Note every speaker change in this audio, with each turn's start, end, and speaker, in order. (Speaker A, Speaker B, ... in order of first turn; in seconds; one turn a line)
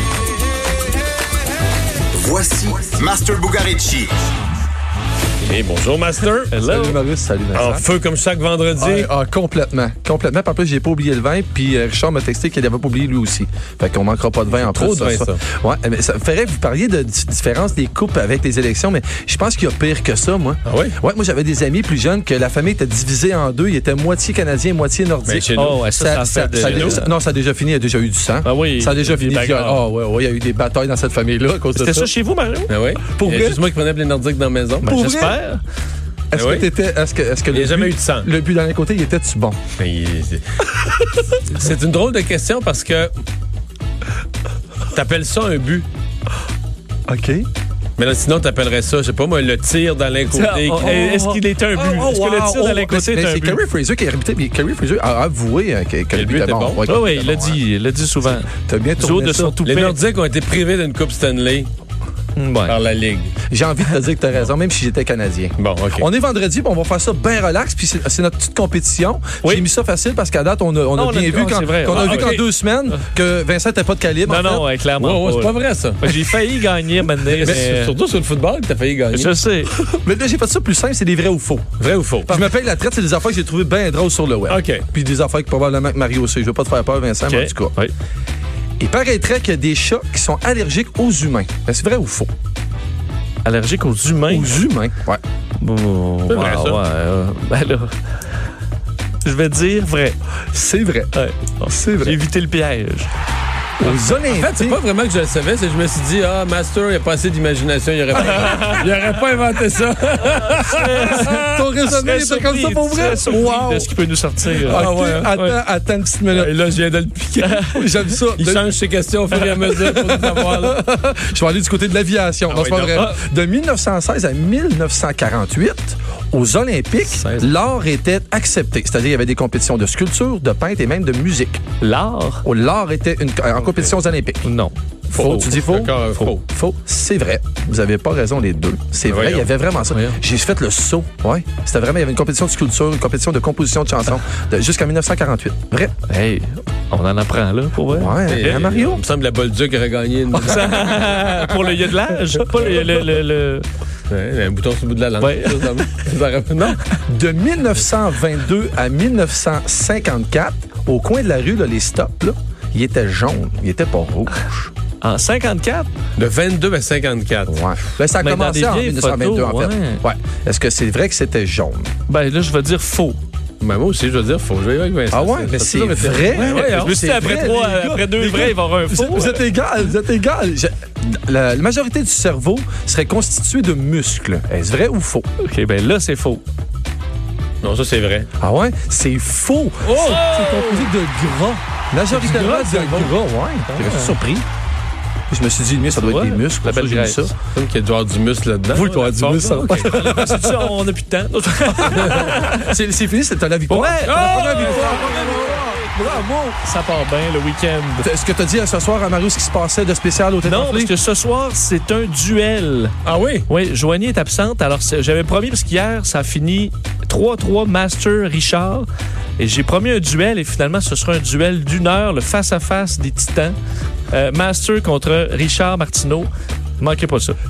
Speaker A: 2.1-4.2
Speaker B: 5.4-6.6
Speaker C: 6.5-7.0
Speaker D: 6.6-7.8
Speaker B: 7.5-9.1
Speaker D: 8.8-32.1
Speaker B: 14.5-15.4
Speaker B: 20.6-21.0
Speaker B: 25.2-25.9
Speaker C: 25.6-27.1
Speaker B: 26.6-27.0
Speaker C: 28.4-29.8
Speaker C: 31.8-32.7
Speaker B: 32.7-34.9
Speaker D: 33.1-33.6
Speaker D: 34.8-35.4
Speaker C: 34.8-35.6
Speaker D: 36.3-39.6
Speaker B: 36.3-36.7
Speaker B: 37.5-38.3
Speaker B: 39.8-40.7
Speaker B: 41.5-43.1
Speaker B: 44.9-45.9
Speaker D: 47.1-47.5
Speaker B: 48.0-51.2
Speaker C: 50.3-53.6
Speaker D: 50.7-57.5
Speaker B: 56.2-57.5
Speaker C: 56.8-60.0
Speaker D: 58.2-59.6
Speaker B: 59.6-61.7
Speaker C: 62.4-62.8
Speaker B: 62.6-63.3
Speaker D: 63.5-74.7
Speaker B: 65.6-66.1
Speaker C: 70.9-72.3
Speaker B: 71.9-72.4
Speaker C: 74.2-77.9
Speaker B: 75.0-76.3
Speaker B: 77.2-79.4
Speaker C: 79.1-79.7
Speaker D: 79.8-87.7
Speaker B: 81.8-82.4
Speaker B: 84.5-84.8
Speaker C: 87.3-87.9
Speaker D: 88.8-92.3
Speaker C: 93.4-94.6
Speaker D: 94.3-95.2
Speaker C: 95.6-98.0
Speaker B: 96.3-96.8
Speaker C: 99.2-100.2
Speaker D: 100.5-101.1
Speaker C: 101.1-103.1
Speaker D: 101.7-102.2
Speaker D: 103.8-104.8
Speaker B: 103.8-111.6
Speaker D: 108.3-108.6
Speaker C: 108.4-108.8
Speaker C: 110.5-115.6
Speaker D: 111.0-113.9
Speaker B: 114.6-115.3
Speaker D: 114.6-116.5
Speaker B: 116.3-117.7
Speaker C: 117.4-117.8
Speaker D: 117.7-118.7
Speaker B: 118.3-120.8
Speaker D: 119.5-131.6
Speaker B: 122.5-123.1
Speaker B: 127.1-127.5
Speaker C: 131.8-132.4
Speaker D: 132.4-134.4
Speaker B: 133.7-133.9
Speaker C: 134.4-135.3
Speaker B: 135.1-136.4
Speaker D: 135.2-145.9
Speaker B: 139.1-139.5
Speaker C: 146.1-149.0
Speaker D: 147.9-149.0
Speaker B: 148.2-151.8
Speaker C: 150.3-153.7
Speaker B: 154.1-156.8
Speaker C: 155.2-155.9
Speaker D: 157.1-164.7
Speaker C: 165.0-165.9
Speaker B: 166.2-167.6
Speaker D: 167.5-171.9
Speaker C: 168.2-170.0
Speaker C: 172.1-173.2
Speaker B: 173.6-177.0
Speaker D: 175.1-185.2
Speaker C: 176.3-179.4
Speaker C: 185.4-186.4
Speaker B: 187.6-188.3
Speaker D: 188.4-194.5
Speaker B: 189.9-190.2
Speaker C: 189.9-190.9
Speaker B: 192.2-193.1
Speaker C: 193.7-194.1
Speaker D: 195.3-197.3
Speaker C: 195.9-197.3
Speaker B: 197.5-199.9
Speaker D: 198.7-200.7
Speaker C: 199.7-202.8
Speaker D: 201.7-206.6
Speaker B: 201.9-202.2
Speaker C: 203.7-208.1
Speaker B: 204.1-205.3
Speaker D: 208.0-210.9
Speaker C: 210.4-212.9
Speaker B: 213.0-213.5
Speaker C: 213.5-218.9
Speaker C: 219.4-223.6
Speaker C: 224.1-227.4